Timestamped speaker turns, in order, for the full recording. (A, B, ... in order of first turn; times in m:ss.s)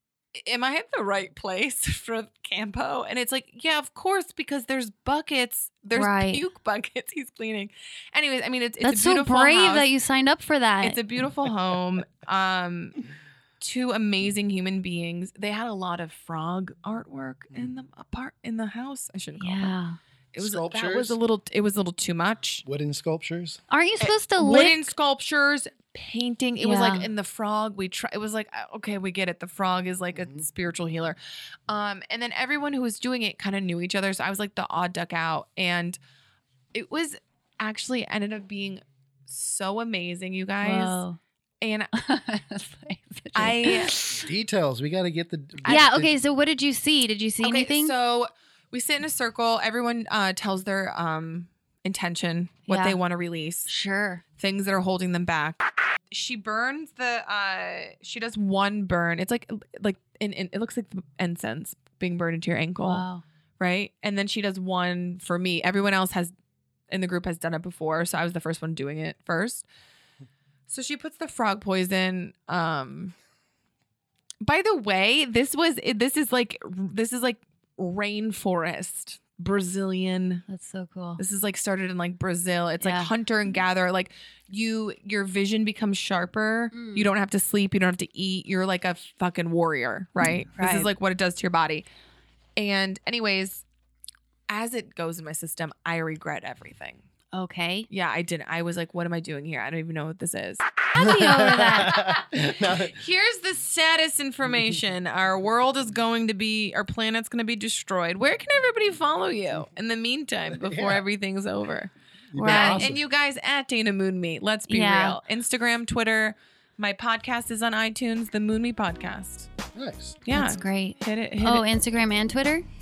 0:00.4-0:09.9 A
0:06.0-0:06.4 B
0:08.8-0:11.0 B
0:10.8-0:13.0 A
0:13.6-0:19.8 A
0:19.4-0:20.0 B
0:20.3-0:22.6 A
0:20.4-0:21.2 C
0:22.6-0:23.6 C
0:23.7-0:24.9 B
0:24.0-0:31.2 A
0:26.6-0:27.1 B
0:30.2-0:30.4 C
0:31.7-0:36.0 A
0:36.7-0:41.0 A
0:40.6-0:41.2 B
0:41.6-0:41.9 A
0:41.9-0:44.3 B
0:43.4-0:44.0 A
0:44.2-0:46.2 C
0:45.6-0:47.9 B
0:47.4-0:53.7 A
0:52.7-0:53.0 B
0:53.7-0:54.2 B
0:54.4-1:03.1 A
1:02.8-1:03.2 B
1:03.6-1:06.3 A
1:06.9-1:09.7 A
1:10.7-1:13.1 A
1:14.4-1:20.4 A
1:20.5-1:21.2 B
1:21.2-1:31.9 A
1:22.8-1:23.1 B
1:26.7-1:27.1 B
1:30.2-1:30.9 B
1:32.6-1:33.6 A
1:34.5-1:37.0 A
1:37.3-1:37.9 B
1:37.9-1:40.6 A
1:40.9-1:42.0 B
1:41.0-1:43.0 C
1:41.9-1:51.9 A
1:50.5-1:51.0 C
1:52.3-1:53.0 C
1:52.3-1:52.9 B
1:52.4-1:59.5 A
1:54.7-1:55.2 B
1:59.8-2:00.2 C
2:00.2-2:01.7 A
2:00.3-2:02.6 B